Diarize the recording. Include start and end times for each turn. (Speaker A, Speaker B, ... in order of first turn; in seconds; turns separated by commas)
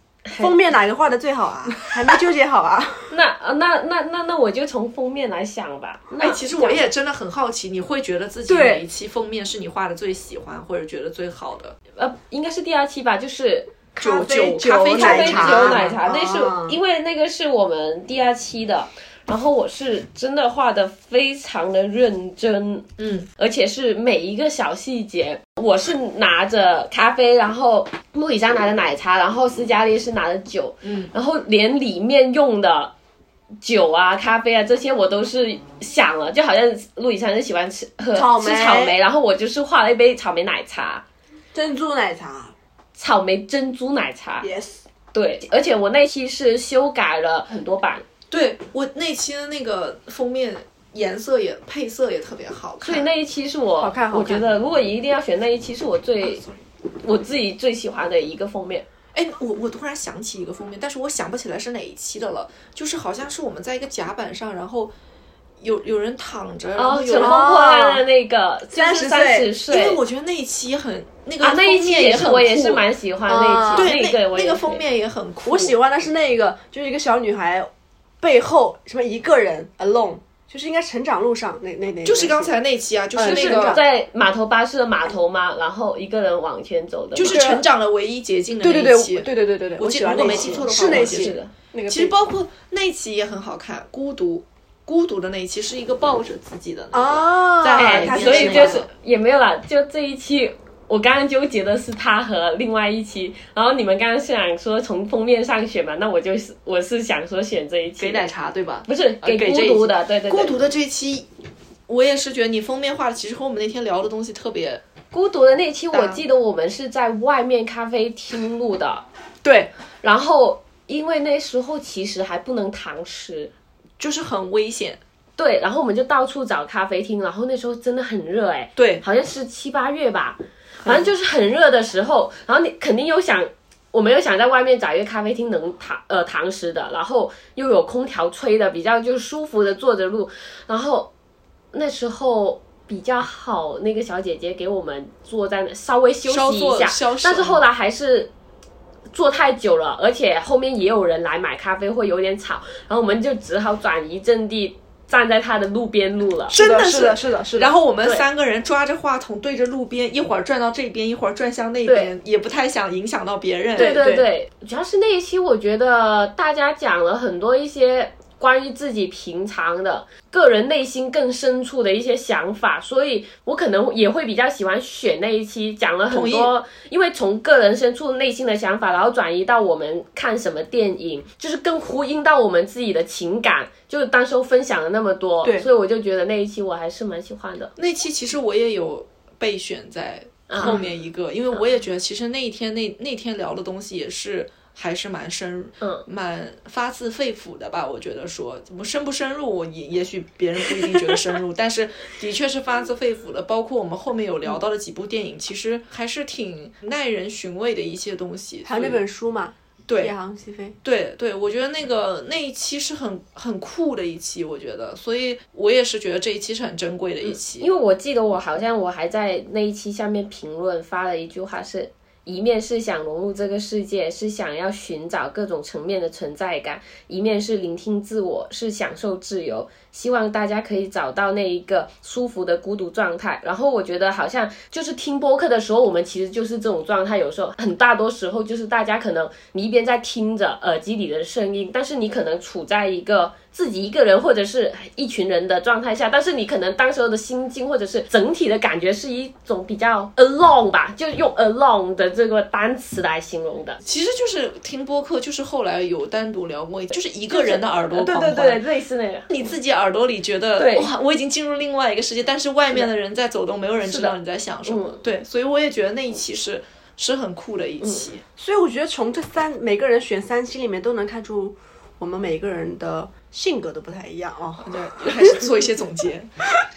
Speaker A: 0.3-0.6, Speaker B: 0.4-3.1, Speaker A: 3.1-6.8, Speaker C: 6.2-11.8, Speaker B: 8.5-8.8, Speaker A: 12.0-13.7, Speaker B: 13.9-16.8, Speaker C: 14.0-16.0, Speaker A: 14.9-22.9, Speaker C: 23.0-23.3, Speaker A: 23.4-32.9, Speaker C: 30.8-31.1, Speaker A: 33.6-41.0, Speaker B: 38.1-39.0, Speaker B: 41.5-42.5, Speaker A: 43.0-44.5, Speaker B: 44.4-44.8, Speaker A: 45.1-48.0, Speaker C: 48.3-53.1, Speaker A: 52.8-56.5, Speaker B: 53.8-54.5, Speaker A: 57.0-58.9, Speaker C: 59.1-64.9, Speaker C: 65.6-67.5, Speaker A: 66.8-70.0, Speaker B: 67.2-68.0, Speaker B: 68.7-69.5, Speaker C: 69.7-72.9, Speaker A: 71.4-74.8, Speaker B: 73.3-73.9, Speaker C: 73.8-75.8, Speaker B: 75.5-77.7, Speaker B: 78.2-82.6, Speaker C: 82.0-83.8, Speaker B: 83.2-83.8, Speaker A: 83.2-87.4, Speaker C: 87.1-91.4, Speaker B: 87.2-87.6, Speaker B: 88.6-92.2, Speaker A: 90.1-91.5, Speaker C: 91.9-98.9, Speaker B: 96.9-98.9, Speaker A: 97.7-108.3, Speaker C: 108.0-111.3, Speaker A: 108.9-110.6, Speaker C: 111.9-114.8, Speaker A: 115.1-119.0, Speaker C: 115.9-116.2, Speaker C: 119.4-119.7, Speaker A: 120.0-123.5, Speaker C: 124.0-125.0, Speaker A: 125.4-141.1, Speaker C: 128.8-129.1, Speaker C: 130.8-131.1, Speaker A: 141.7-148.3, Speaker C: 146.3-147.6, Speaker A: 149.1-156.6, Speaker B: 156.5-157.7, Speaker C: 156.5-164.2, Speaker A: 161.9-162.1, Speaker A: 163.8-187.7, Speaker B: 163.8-164.2, Speaker C: 176.1-176.5, Speaker C: 187.8-209.0, Speaker A: 190.5-190.8, Speaker B: 208.7-210.8, Speaker C: 209.9-210.1, Speaker C: 210.8-217.7, Speaker A: 217.6-253.8, Speaker C: 253.8-258.6, Speaker A: 257.3-259.3, Speaker C: 259.3-268.2, Speaker A: 260.6-260.9, Speaker A: 263.8-264.1, Speaker A: 264.7-265.0, Speaker A: 267.8-268.1, Speaker B: 268.4-275.5, Speaker C: 274.6-276.3